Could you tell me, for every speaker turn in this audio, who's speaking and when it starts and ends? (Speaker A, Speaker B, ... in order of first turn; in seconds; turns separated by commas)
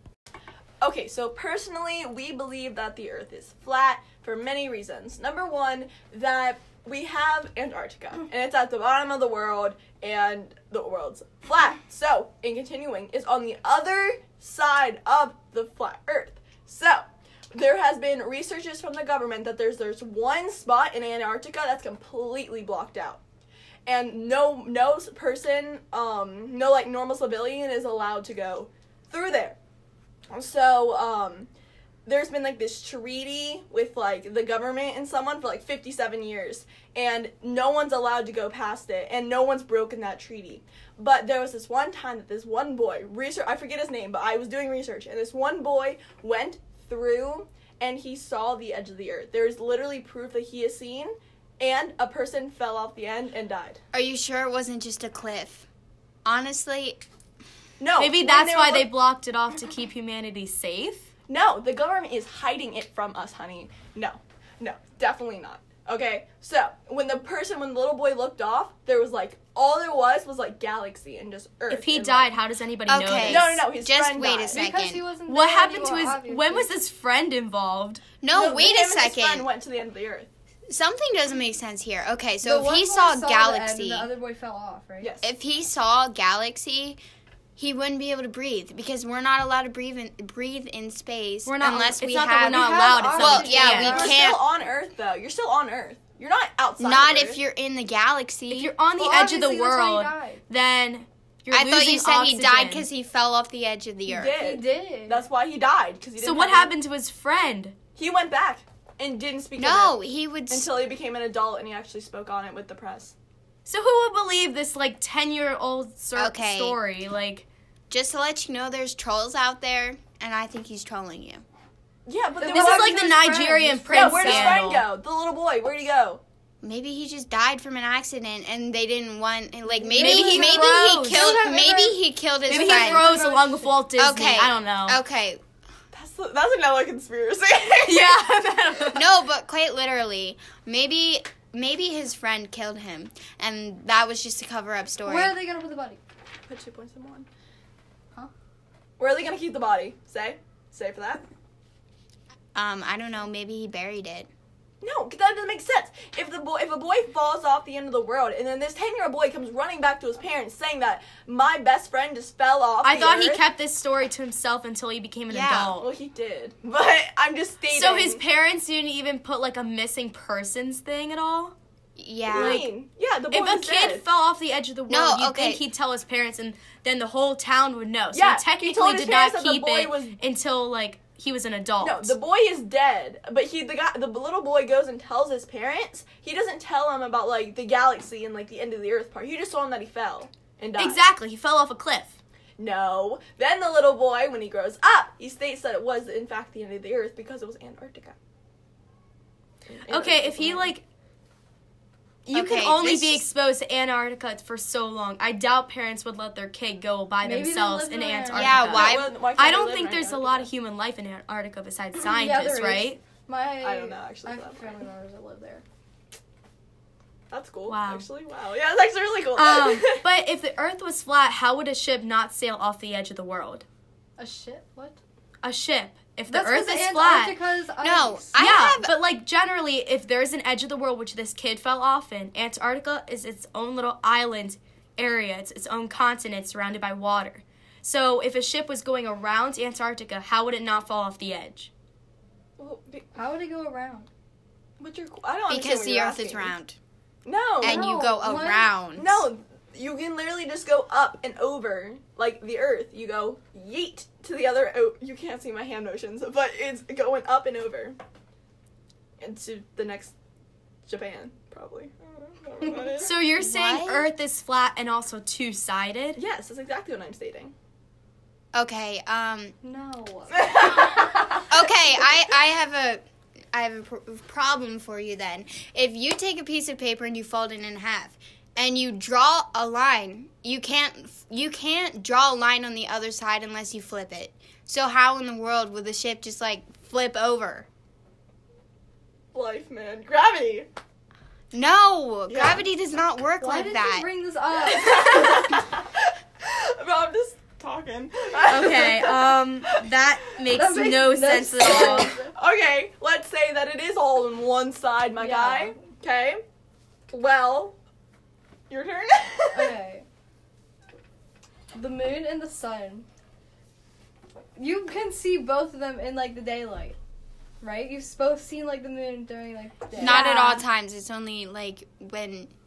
Speaker A: 0.8-23.2, Speaker A: 23.9-29.6, Speaker A: 30.3-31.5, Speaker A: 32.1-53.8, Speaker B: 53.9-55.7, Speaker B: 56.2-57.0, Speaker A: 57.8-58.9, Speaker C: 58.0-61.1, Speaker A: 61.3-72.3, Speaker C: 71.7-73.7, Speaker B: 72.9-75.0, Speaker A: 73.2-74.7, Speaker D: 74.5-76.7, Speaker C: 75.3-78.0, Speaker B: 78.2-79.5, Speaker A: 78.3-80.3, Speaker B: 80.7-84.1, Speaker D: 82.4-85.2, Speaker B: 85.2-87.0, Speaker B: 87.6-94.4, Speaker C: 91.5-94.0, Speaker D: 92.4-94.2, Speaker A: 93.7-97.4, Speaker B: 96.8-98.7, Speaker C: 98.5-102.9, Speaker D: 99.0-100.4, Speaker B: 101.5-104.4, Speaker A: 104.1-106.7, Speaker D: 104.4-105.2, Speaker C: 106.2-107.8, Speaker A: 108.0-110.0, Speaker B: 109.6-110.7, Speaker A: 110.5-113.2, Speaker C: 113.7-117.5, Speaker B: 116.2-116.8, Speaker B: 117.9-121.4, Speaker A: 122.1-126.2, Speaker D: 122.4-124.6, Speaker C: 122.5-124.9, Speaker B: 126.6-133.1, Speaker D: 129.8-132.0, Speaker C: 129.9-131.4, Speaker C: 132.5-135.0, Speaker D: 132.5-133.7, Speaker B: 134.0-135.4, Speaker A: 135.9-138.2, Speaker C: 137.8-139.2, Speaker B: 138.9-145.4, Speaker D: 145.1-146.0, Speaker A: 146.5-147.3, Speaker A: 149.0-151.2, Speaker B: 152.6-154.3, Speaker A: 154.8-163.4, Speaker C: 162.8-165.9, Speaker B: 165.3-165.8, Speaker A: 165.8-168.2, Speaker C: 167.7-171.6, Speaker B: 172.0-172.7, Speaker A: 172.3-174.1, Speaker C: 172.3-172.7, Speaker C: 173.3-182.2, Speaker B: 174.9-175.6, Speaker A: 178.1-180.2, Speaker A: 181.8-191.0, Speaker C: 190.8-192.2, Speaker A: 192.6-198.2, Speaker A: 199.7-200.8, Speaker C: 199.9-200.8, Speaker C: 202.3-213.0, Speaker B: 202.3-203.3, Speaker D: 207.2-208.6, Speaker B: 208.3-209.1, Speaker A: 208.7-210.5, Speaker D: 212.0-215.6, Speaker A: 213.6-214.8, Speaker A: 217.3-220.0, Speaker C: 217.7-218.1, Speaker C: 219.4-223.7, Speaker D: 224.2-225.0, Speaker C: 225.4-227.4, Speaker D: 226.3-228.3, Speaker B: 227.8-229.0, Speaker C: 228.4-241.7, Speaker A: 242.6-243.2, Speaker D: 243.2-244.1, Speaker A: 244.8-246.6, Speaker B: 245.5-246.8, Speaker A: 247.2-247.8, Speaker D: 247.6-248.7, Speaker B: 247.6-249.2, Speaker A: 249.0-258.0, Speaker A: 259.2-260.1, Speaker A: 260.9-263.1, Speaker C: 262.9-266.2, Speaker B: 263.4-264.1, Speaker A: 266.2-267.5, Speaker B: 268.5-269.6, Speaker D: 269.6-271.5, Speaker A: 270.3-271.0, Speaker B: 271.5-287.7, Speaker A: 289.3-290.7, Speaker B: 291.5-294.1, Speaker A: 292.3-292.6, Speaker D: 293.4-295.4, Speaker A: 294.6-299.4, Speaker C: 298.5-302.1, Speaker D: 300.5-302.3, Speaker A: 301.6-306.4, Speaker D: 305.2-305.8, Speaker A: 307.1-307.8, Speaker A: 308.7-309.8, Speaker D: 309.5-310.1, Speaker D: 311.7-313.1, Speaker D: 314.6-317.0, Speaker D: 317.6-320.6, Speaker B: 320.0-322.5, Speaker C: 320.0-320.6